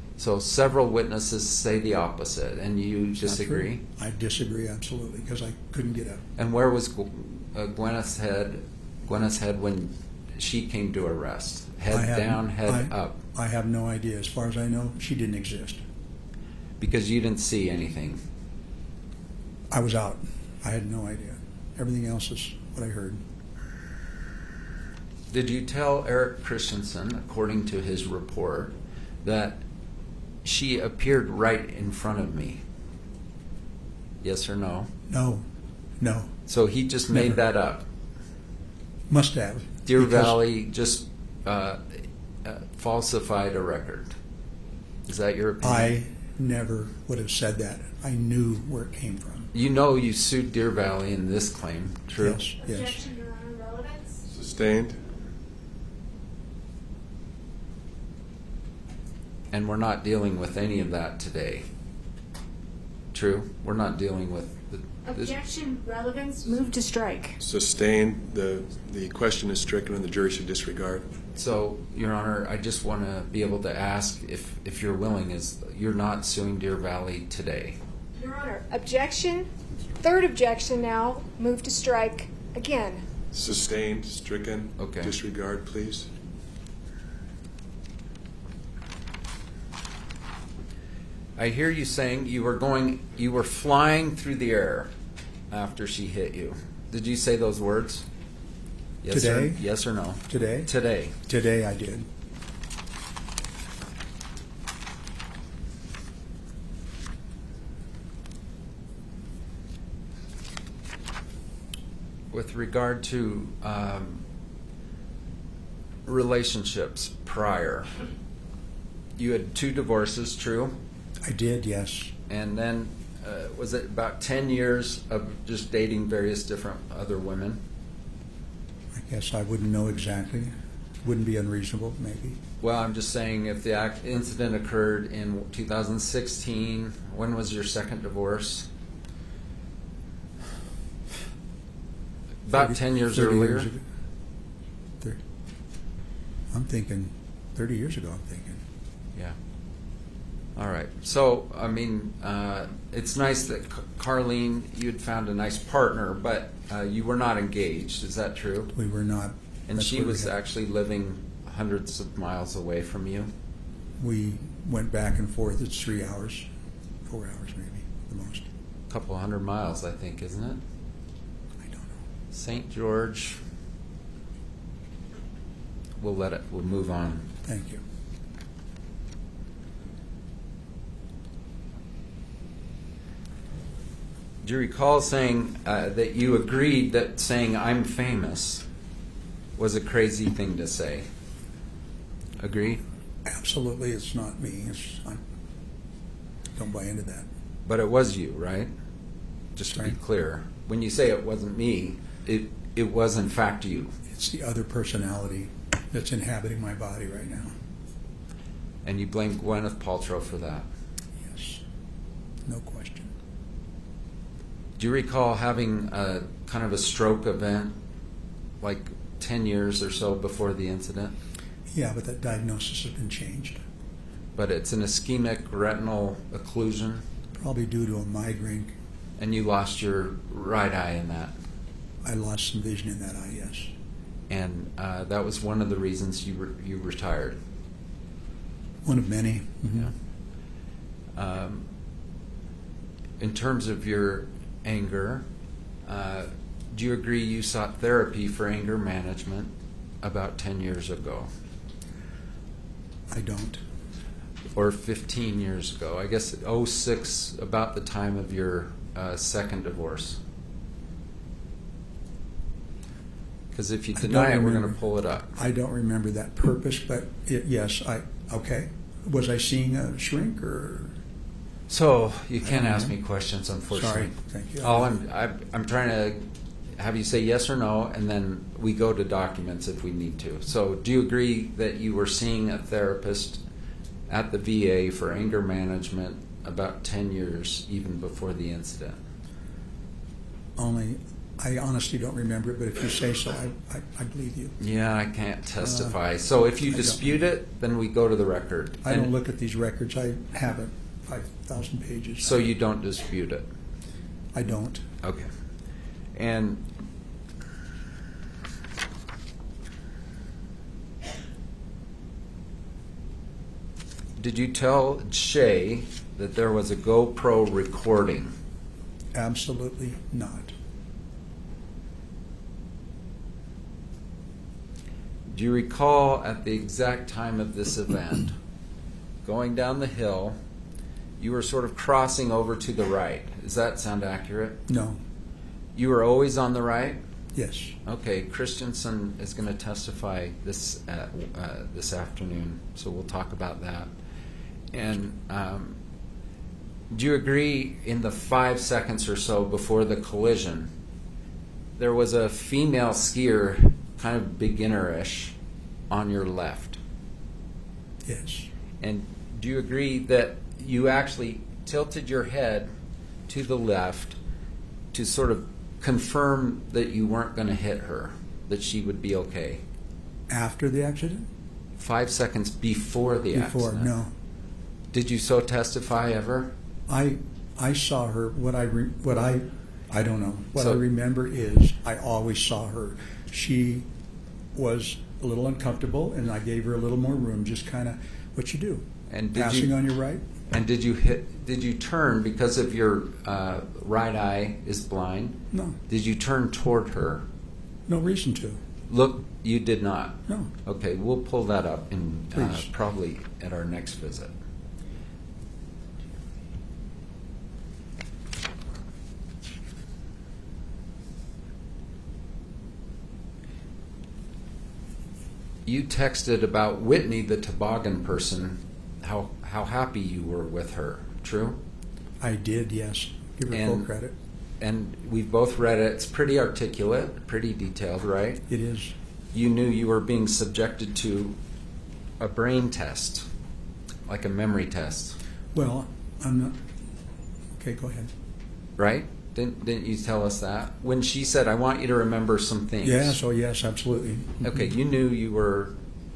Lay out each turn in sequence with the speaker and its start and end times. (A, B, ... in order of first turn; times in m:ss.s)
0:00.2-0:03.8 A
0:03.2-0:06.2 B
0:06.4-0:13.2 A
0:11.9-0:15.8 B
0:16.8-0:18.2 A
0:19.7-0:23.2 B
0:25.3-0:29.6 A
0:30.4-0:32.6 A
0:34.2-0:34.9 A
0:35.1-0:35.4 B
0:36.0-0:36.3 B
0:36.5-0:37.9 A
0:37.1-0:37.4 B
0:39.1-0:40.4 B
0:39.8-0:44.1 A
0:45.0-0:46.0 A
0:45.6-0:49.5 B
0:49.5-0:52.4 A
0:52.2-0:53.0 B
0:52.6-0:54.2 C
0:54.3-0:55.0 D
0:59.5-1:01.6 A
1:03.1-1:05.3 A
1:05.0-1:07.4 C
1:07.4-1:11.1 D
1:11.3-1:17.8 A
1:18.2-1:23.0 C
1:23.3-1:26.1 D
1:24.8-1:25.1 A
1:31.4-1:34.9 A
1:35.5-1:38.0 A
1:39.0-1:41.2 A
1:39.1-1:39.6 B
1:40.3-1:40.7 B
1:41.2-1:42.1 B
1:52.3-1:54.2 A
1:56.0-1:57.9 A
1:59.2-2:00.8 A
2:01.2-2:02.1 B
2:02.3-2:07.6 A
2:08.9-2:12.4 B
2:12.6-2:18.7 A
2:22.4-2:23.7 A
2:22.5-2:23.8 B
2:26.5-2:28.6 B
2:30.6-2:38.7 A
2:38.7-2:40.3 B
2:39.7-2:43.3 A
2:44.0-2:46.5 B
2:47.0-2:48.5 B
2:48.9-2:50.6 A
2:51.6-2:52.0 B
2:52.3-2:53.4 A
2:56.0-2:57.2 A
2:57.4-2:57.8 B
3:04.4-3:08.6 A
3:09.6-3:11.1 A
3:12.4-3:12.8 A
3:13.2-3:15.2 B
3:16.5-3:17.3 B
3:17.6-3:18.7 A
3:19.5-3:23.9 A
3:19.7-3:20.0 B
3:24.1-3:27.5 B
3:28.8-3:30.6 A
3:31.2-3:31.6 B
3:32.4-3:33.1 B
3:34.8-3:37.7 A
3:38.6-3:41.1 A
3:41.7-3:43.6 B
3:44.4-3:47.0 A
3:47.3-3:48.7 B
3:49.2-3:51.3 A
3:52.0-3:53.7 B
3:54.3-3:57.4 A
3:58.8-3:59.9 B
4:01.2-4:01.7 A
4:03.2-4:05.2 A
4:05.8-4:11.3 A
4:13.1-4:13.6 B
4:14.5-4:20.2 A
4:23.5-4:25.4 A
4:23.9-4:31.0 B
4:31.7-4:36.2 A
4:32.4-4:33.0 B
4:33.7-4:34.9 B
4:36.8-4:43.4 A
4:44.1-4:49.0 A
4:50.6-4:54.6 B
4:54.6-4:59.1 A
4:55.6-4:56.0 B
4:56.7-4:57.0 B
4:58.8-5:02.5 B
5:02.2-5:03.5 A
5:04.3-5:04.9 B
5:05.0-5:05.3 A
5:06.1-5:06.6 A
5:14.2-5:18.3 A
5:19.1-5:20.5 B
5:25.3-5:28.4 A
5:29.2-5:30.4 A
5:31.2-5:34.6 A
5:34.7-5:35.0 B
5:35.7-5:37.0 A
5:37.3-5:37.8 B
5:37.8-5:43.9 A
5:44.7-5:45.8 A
5:46.9-5:50.7 A
5:51.8-5:55.3 A
5:55.9-5:56.8 A
5:58.0-5:58.5 B
5:58.8-6:02.7 A
6:03.3-6:04.2 A
6:04.9-6:09.6 A
6:10.3-6:11.3 B
6:11.8-6:13.9 A
6:13.3-6:14.1 B
6:14.9-6:16.5 A
6:16.9-6:23.9 B
6:24.5-6:30.4 B
6:29.1-6:29.7 A
6:30.5-6:37.3 A
6:35.5-6:35.8 B
6:37.9-6:38.6 B
6:38.9-6:44.3 A
6:42.3-6:42.7 B
6:55.6-7:01.6 A
7:02.2-7:04.1 B
7:03.5-7:03.9 A
7:04.6-7:08.4 A
7:08.5-7:08.9 B
7:09.3-7:11.4 A
7:12.2-7:13.3 A
7:14.0-7:15.2 A
7:15.5-7:16.8 B
7:17.6-7:18.1 B
7:18.8-7:23.2 A
7:22.8-7:24.7 B
7:24.4-7:25.8 A